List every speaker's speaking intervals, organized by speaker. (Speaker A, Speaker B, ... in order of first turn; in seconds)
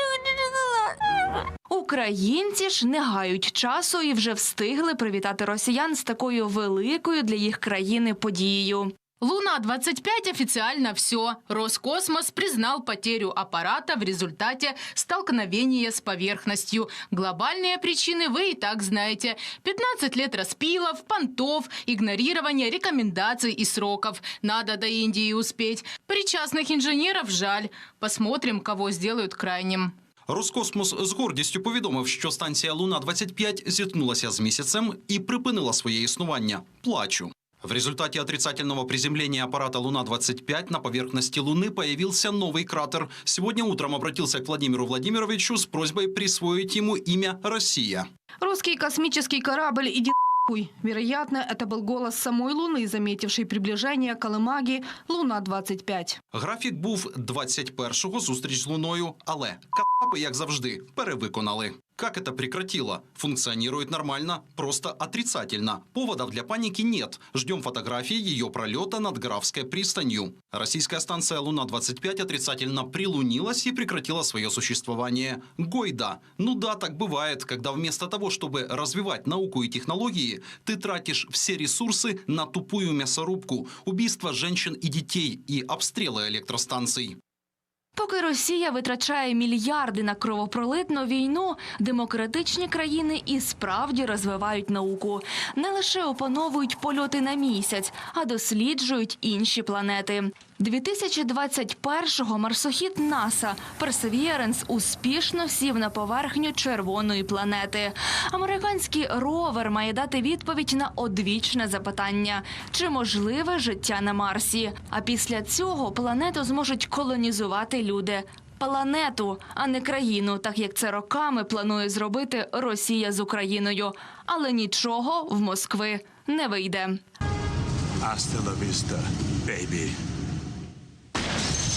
Speaker A: 1.7-9.0, 88.0-127.0
Speaker B: 9.2-29.9
Speaker C: 30.3-48.1, 56.3-87.2
Speaker D: 48.4-56.2
Speaker E: 128.0-129.9